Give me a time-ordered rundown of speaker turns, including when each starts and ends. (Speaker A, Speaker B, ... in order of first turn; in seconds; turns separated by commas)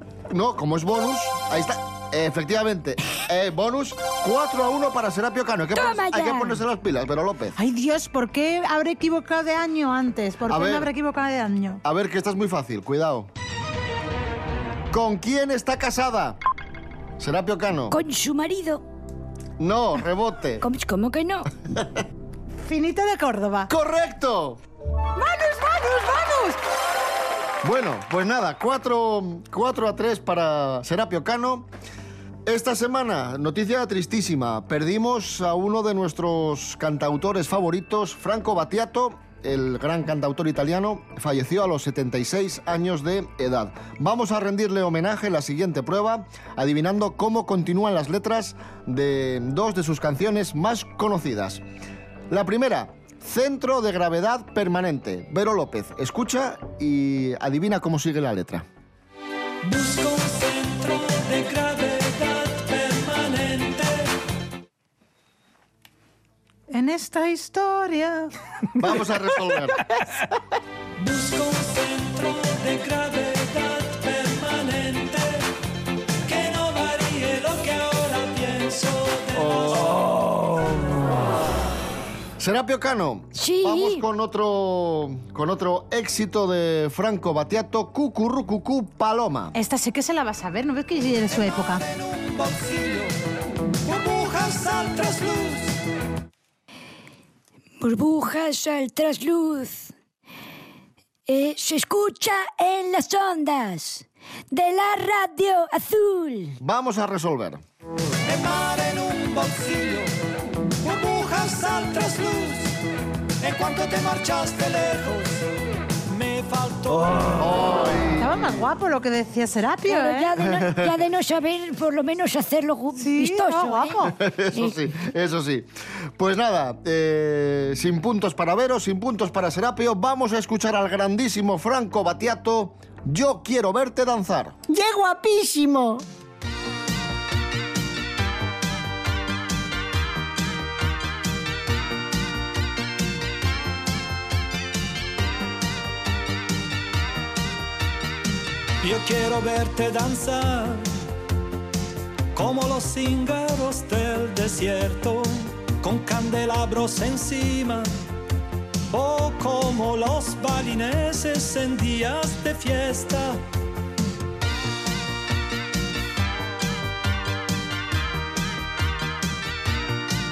Speaker A: 0.3-7.6, Speaker B: 5.8-6.6, Speaker C: 7.6-11.8, Speaker A: 10.5-10.9, Speaker A: 11.8-13.3, Speaker A: 14.9-16.4, Speaker A: 17.2-18.0, Speaker B: 17.9-18.8, Speaker A: 19.6-20.6, Speaker B: 20.6-21.5, Speaker C: 22.6-23.7, Speaker A: 23.7-24.6, Speaker C: 25.1-26.6, Speaker A: 27.6-31.7, Speaker A: 32.5-51.6, Speaker A: 52.3-58.7, Speaker D: 59.6-64.1, Speaker C: 66.7-68.3, Speaker A: 68.8-69.8, Speaker D: 71.0-75.5, Speaker D: 76.3-80.0, Speaker A: 79.3-80.1, Speaker A: 82.4-89.5, Speaker B: 83.4-84.0, Speaker C: 89.5-91.8, Speaker D: 91.3-93.1, Speaker D: 93.8-95.8, Speaker B: 97.8-99.9, Speaker B: 101.3-106.5, Speaker A: 106.6-107.6, Speaker D: 108.3-110.1, Speaker D: 110.8-112.8, Speaker D: 113.4-115.4, Speaker D: 116.1-117.3, Speaker A: 117.4-118.6, Speaker C: 118.2-120.4, Speaker B: 119.9-124.0, Speaker A: 120.4-120.9, Speaker C: 123.0-124.2, Speaker A: 124.2-134.6, Speaker C: 134.7-136.0, Speaker D: 148.8-150.9, Speaker D: 152.3-157.9, Speaker D: 158.9-163.4